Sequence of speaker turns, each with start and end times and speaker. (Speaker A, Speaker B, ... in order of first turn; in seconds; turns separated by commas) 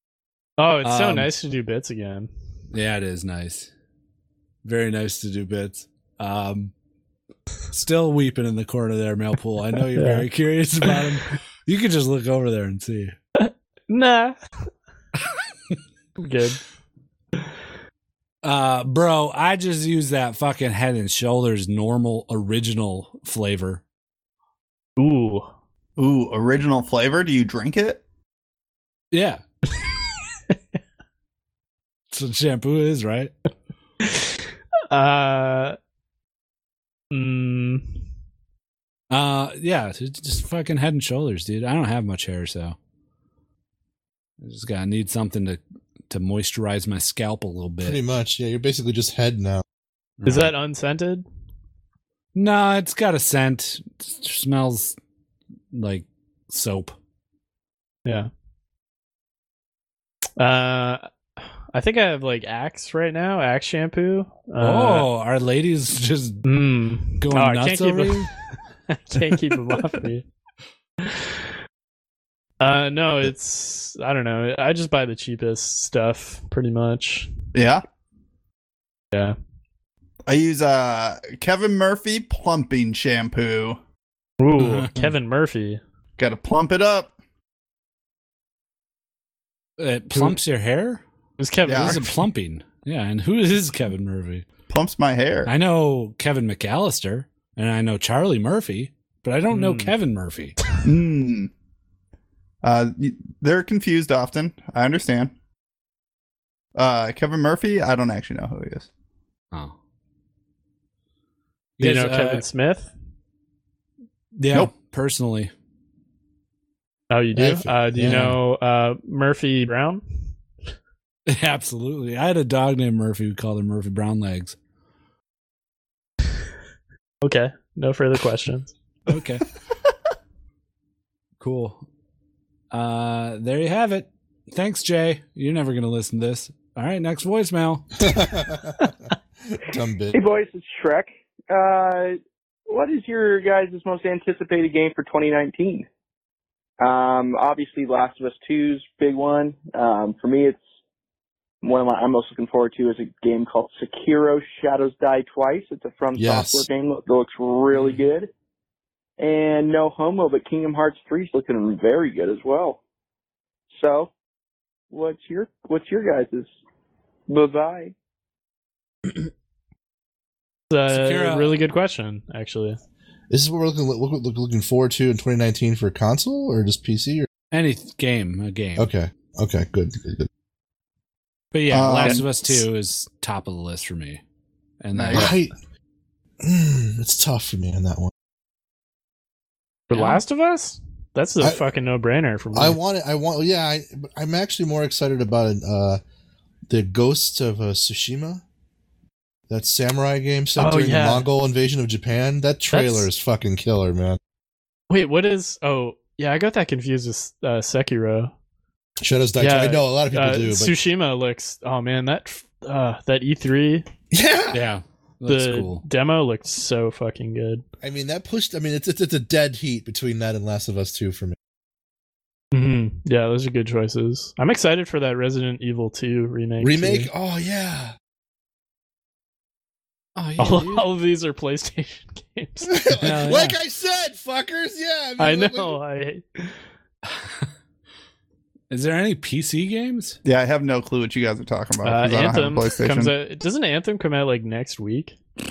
Speaker A: 0.6-2.3, Speaker B: 0.8-1.3, Speaker B: 2.7-3.7, Speaker B: 4.6-6.7, Speaker B: 7.7-13.1, Speaker A: 9.9-10.2, Speaker A: 13.4-14.4, Speaker A: 16.2-16.6, Speaker B: 18.4-23.8, Speaker A: 25.0-25.5, Speaker C: 26.0-28.0, Speaker B: 29.1-29.4, Speaker B: 32.1-33.3, Speaker A: 34.9-35.8, Speaker A: 37.1-37.9, Speaker B: 39.1-42.8, Speaker B: 44.4-48.0, Speaker D: 47.8-49.6, Speaker B: 50.2-50.5, Speaker A: 50.2-51.2, Speaker B: 52.3-55.0, Speaker B: 55.7-57.0, Speaker A: 60.4-61.0, Speaker A: 61.7-65.1, Speaker B: 64.6-66.4, Speaker A: 66.4-68.3, Speaker B: 67.2-68.3, Speaker A: 68.9-70.2, Speaker A: 72.6-77.3, Speaker C: 77.5-77.8, Speaker C: 80.3-83.8, Speaker A: 84.4-85.8, Speaker B: 84.6-85.1, Speaker C: 86.2-87.1, Speaker B: 89.8-91.0, Speaker A: 91.4-92.1, Speaker C: 91.7-92.0, Speaker B: 91.7-94.4, Speaker C: 94.7-95.5, Speaker B: 95.5-100.6, Speaker A: 99.5-99.9, Speaker C: 100.8-101.5, Speaker C: 102.6-105.3, Speaker C: 106.7-108.9, Speaker B: 111.8-112.4, Speaker A: 111.8-112.9, Speaker B: 114.3-115.5, Speaker A: 117.1-120.0, Speaker D: 117.3-118.3, Speaker B: 118.0-118.4, Speaker B: 121.3-124.5, Speaker A: 127.2-128.7, Speaker B: 129.1-129.4, Speaker B: 131.4-131.8, Speaker B: 132.7-137.9, Speaker D: 138.0-138.9, Speaker D: 139.5-140.2, Speaker E: 140.1-145.9, Speaker E: 146.8-150.6, Speaker E: 151.6-158.3, Speaker D: 156.2-156.7, Speaker E: 159.2-162.8, Speaker E: 163.7-164.1, Speaker E: 164.9-166.5, Speaker E: 167.3-167.9, Speaker A: 170.7-172.8, Speaker B: 170.9-171.6, Speaker D: 173.3-177.3, Speaker B: 177.5-178.9, Speaker D: 178.8-180.3, Speaker B: 181.5-184.2, Speaker C: 181.7-182.3, Speaker B: 184.8-185.3, Speaker C: 184.9-185.3, Speaker D: 185.1-185.5, Speaker D: 186.4-188.1, Speaker A: 189.9-192.8, Speaker B: 189.9-190.2, Speaker D: 191.4-191.7, Speaker D: 192.5-196.0, Speaker D: 196.7-198.4, Speaker D: 199.5-204.2, Speaker A: 200.6-201.3, Speaker A: 202.7-203.1, Speaker A: 204.9-208.3, Speaker D: 209.0-210.7, Speaker A: 209.4-213.8, Speaker D: 214.1-214.6, Speaker B: 214.5-215.8, Speaker A: 215.3-217.6, Speaker D: 217.8-221.3, Speaker A: 222.5-227.1, Speaker D: 226.6-227.9, Speaker B: 230.2-230.9, Speaker A: 230.4-233.4, Speaker D: 232.7-235.8, Speaker B: 233.0-233.5, Speaker A: 235.2-236.5, Speaker B: 237.1-237.4, Speaker B: 238.7-240.2, Speaker C: 240.2-243.1, Speaker A: 241.8-245.2